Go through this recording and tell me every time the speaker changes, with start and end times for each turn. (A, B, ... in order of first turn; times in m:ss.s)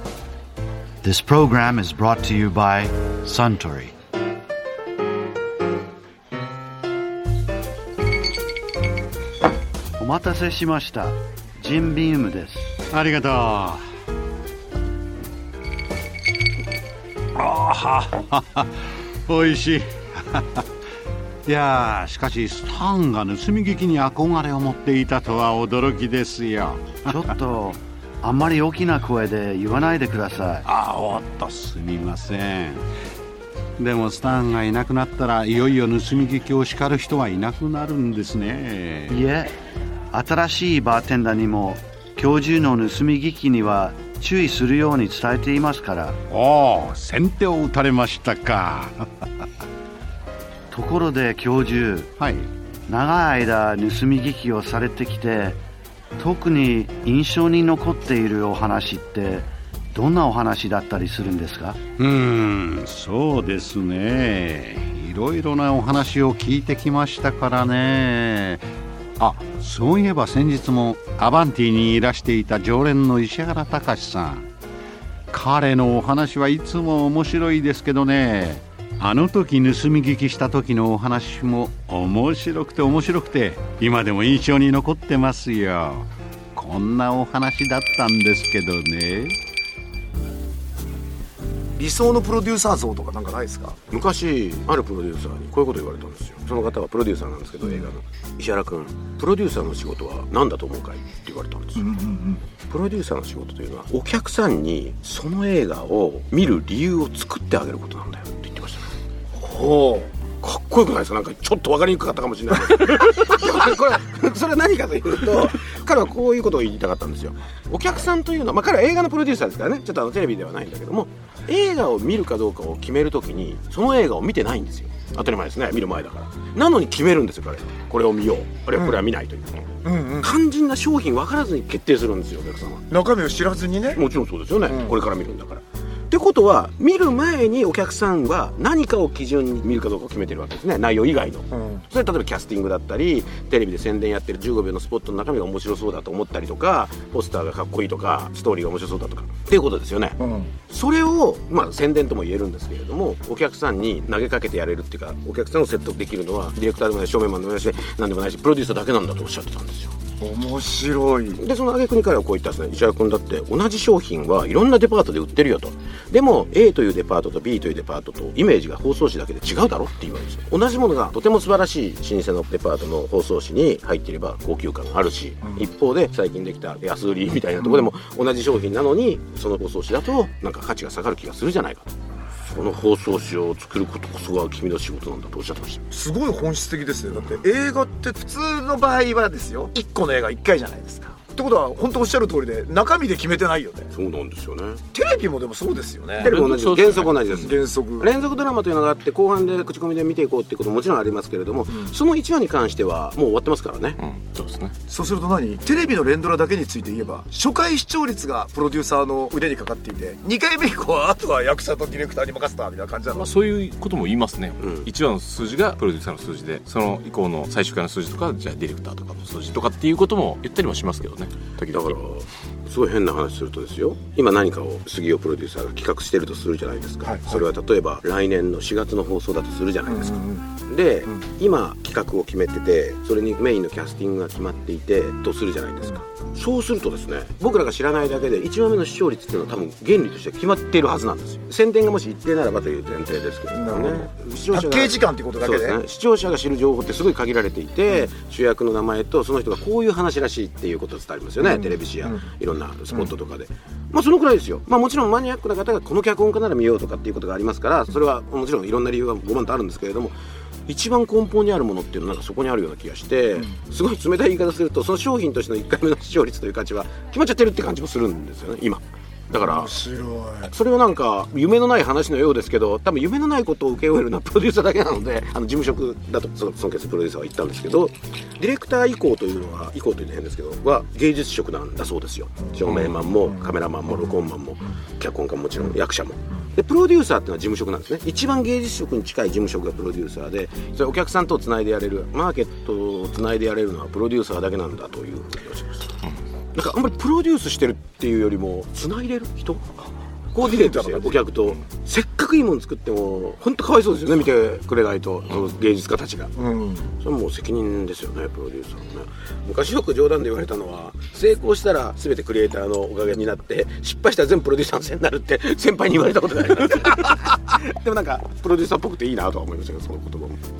0:01.0-0:03.9 A
0:10.0-0:12.8 A
0:12.9-0:13.8 B
0:17.4-0:20.6 B
0:21.4-0:27.3 B
0:27.1-0:30.6 A
0:30.6-0:32.8 B
0:33.8-0:39.2 B
0:39.1-0:39.5 A
0:40.1-0:46.2 A
0:46.3-0:49.3 B
0:50.7-0:52.1 A
0:52.2-0:52.5 B
0:52.9-0:55.6 A
0:56.2-1:01.8 A
1:02.0-1:08.7 B
1:09.2-1:14.5 B
1:15.3-1:29.4 B
1:31.7-1:33.8 C
1:33.9-1:41.8 D
1:41.8-1:42.4 C
1:42.6-1:48.9 D
1:49.3-1:50.1 C
1:50.3-2:12.9 D
2:09.8-2:10.3 C
2:12.9-2:14.0 C
2:13.9-2:40.0 D
2:14.6-2:15.0 C
2:21.5-2:21.8 C
2:30.2-2:30.6 C
2:40.2-2:41.4 C
2:41.4-3:05.8 D
3:05.9-3:13.9 C
3:13.9-3:14.8 D
3:14.9-3:16.3 C
3:16.2-3:24.0 D
3:16.2-3:17.4 E
3:17.4-3:18.1 C
3:21.7-3:21.9 C
3:24.0-3:24.7 E
3:24.9-3:33.3 C
3:33.1-3:42.0 E
3:34.6-3:34.9 D
3:41.7-4:20.1 D
3:47.0-3:47.4 C
3:50.0-3:50.5 C
4:03.5-4:05.8 C
4:11.4-4:12.2 C
4:20.7-4:29.8 D
4:29.5-4:30.5 C
4:30.5-4:55.9 D
4:42.6-4:43.0 E
4:56.5-5:06.3 D
5:00.4-5:01.5 E
5:06.4-5:06.9 C
5:07.0-5:20.4 D